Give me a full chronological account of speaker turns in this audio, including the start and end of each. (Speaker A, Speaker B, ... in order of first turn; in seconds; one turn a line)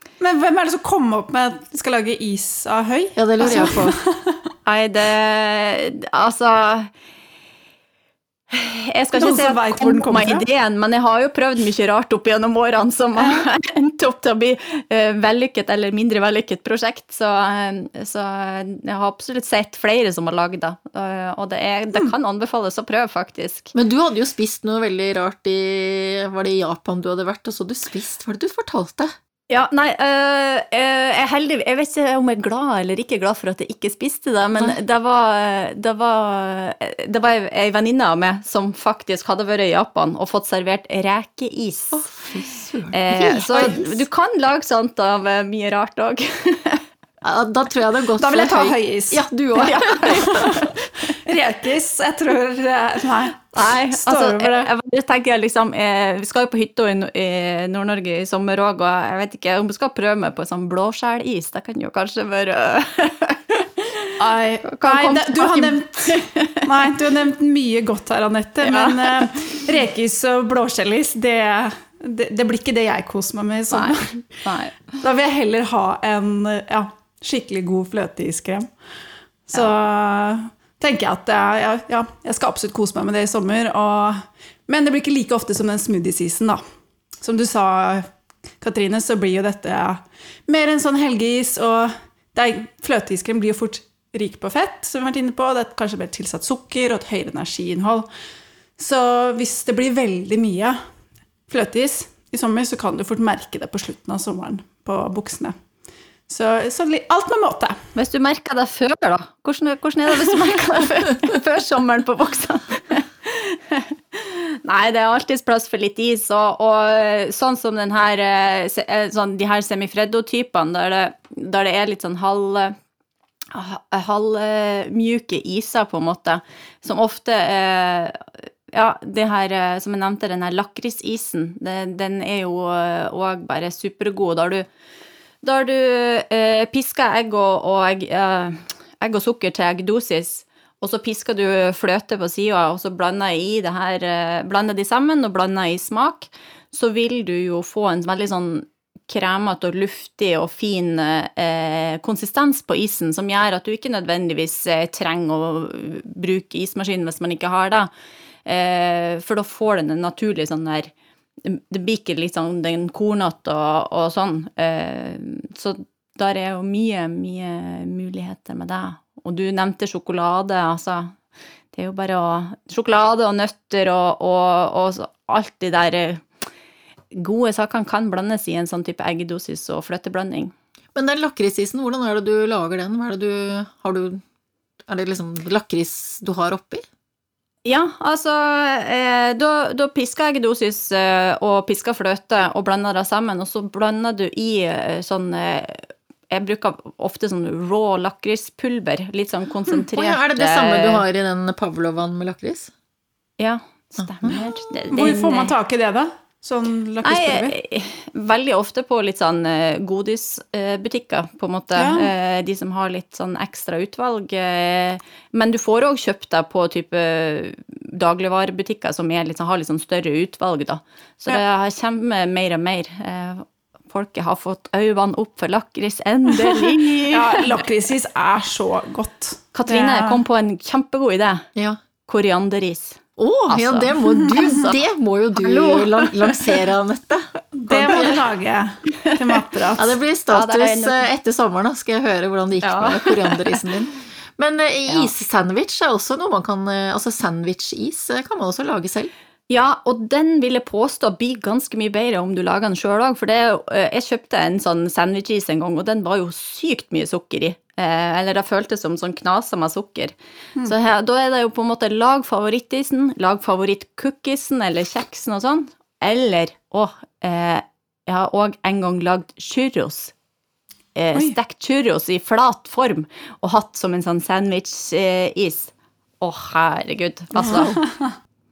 Speaker A: 0.2-4.4
Speaker B: 3.1-4.0
Speaker C: 4.6-6.9
Speaker C: 8.5-23.7
Speaker A: 9.1-10.4
Speaker A: 13.2-13.4
Speaker B: 23.7-29.1
Speaker C: 29.5-42.1
Speaker B: 41.9-43.9
Speaker C: 42.9-46.8
Speaker B: 47.2-50.5
Speaker A: 48.2-49.2
Speaker C: 49.5-50.8
Speaker A: 50.0-54.7
Speaker C: 53.5-64.1
Speaker A: 64.2-74.4
Speaker C: 64.7-66.7
Speaker C: 68.6-69.7
Speaker C: 73.7-75.0
Speaker A: 75.0-78.7
Speaker A: 79.5-86.6
Speaker A: 87.2-88.1
Speaker A: 88.6-98.1
Speaker A: 98.8-100.8
Speaker A: 101.5-105.5
Speaker A: 106.3-107.8
Speaker C: 107.9-122.7
Speaker C: 123.5-134.7
Speaker C: 135.4-157.9
Speaker C: 158.4-160.9
Speaker C: 161.4-171.1
Speaker C: 171.7-176.2
Speaker C: 177.1-180.5
Speaker B: 180.9-184.2
Speaker B: 184.9-186.8
Speaker C: 187.6-201.0
Speaker B: 199.9-202.7
Speaker C: 203.4-205.5
Speaker A: 204.9-207.6
Speaker C: 207.0-227.5
Speaker A: 211.7-212.1
Speaker A: 227.1-230.2
Speaker C: 229.5-231.5
Speaker C: 232.1-234.0
Speaker B: 233.2-238.2
Speaker A: 234.2-234.7
Speaker C: 235.4-236.3
Speaker A: 237.5-240.0
Speaker C: 239.0-239.4
Speaker B: 239.8-249.1
Speaker C: 240.3-241.1
Speaker C: 242.6-243.6
Speaker C: 249.5-270.1
Speaker C: 270.9-277.8
Speaker A: 277.4-278.1